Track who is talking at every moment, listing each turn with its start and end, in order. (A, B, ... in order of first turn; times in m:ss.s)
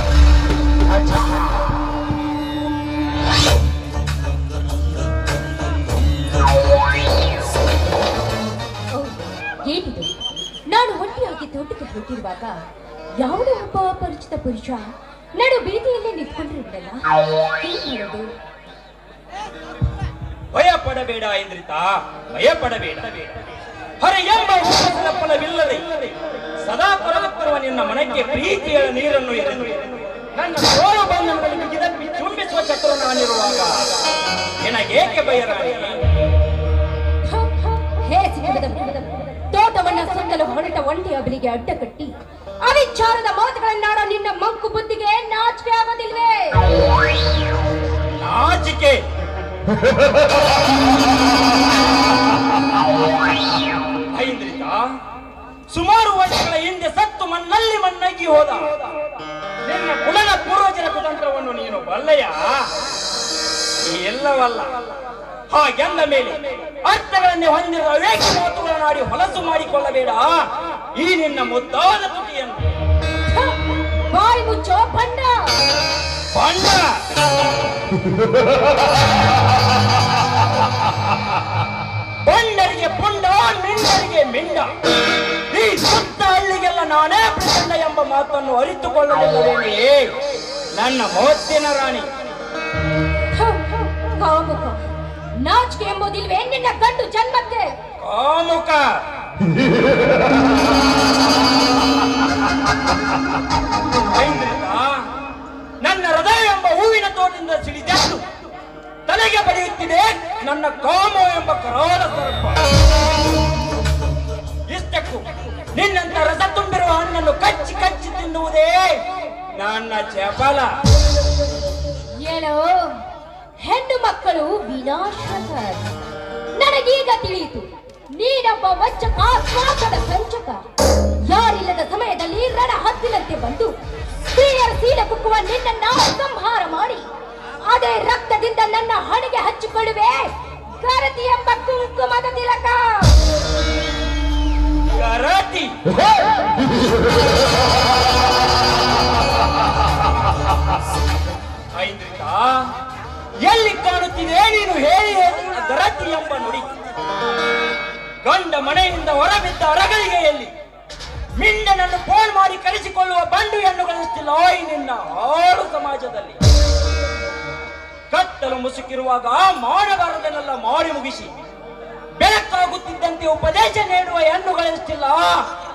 0:08.9-0:10.2 A
0:10.7-0:12.6 A
0:13.2-0:14.8 A
0:15.4-0:17.0 A
0:17.6-0:18.2 A
0:20.5-0:23.3 B
0:24.0-0:33.9 B
0:34.6-0:36.0 B
0:37.2-0:42.1 A
0:42.6-0:46.6 A
0:48.2-0:49.0 B
0:54.1-0:54.9 B
0:55.7-0:58.9 B
0:59.6-1:02.6 B
1:03.8-1:04.7 B
1:05.5-1:12.6 B
1:13.3-1:15.5 A
1:16.3-1:17.0 B
1:22.2-1:24.7 B
1:25.5-1:30.2 B
1:30.8-1:32.1 B
1:33.3-1:34.8 A
1:35.4-1:37.7 A
1:38.0-1:38.8 B
1:44.1-1:45.0 B
1:45.8-1:48.2 B
1:49.1-1:52.6 B
1:54.7-1:59.0 B
1:59.6-2:00.7 B
2:02.2-2:03.0 A
2:03.6-2:05.8 A
2:06.6-2:10.6 A
2:11.2-2:13.7 A
2:14.3-2:17.1 A
2:17.6-2:23.1 A
2:24.9-2:25.7 B
2:31.7-2:32.7 B
2:33.4-2:36.7 B
2:38.2-2:40.5 B
2:41.4-2:46.4 B
2:48.1-2:51.3 B
2:52.2-2:55.4 B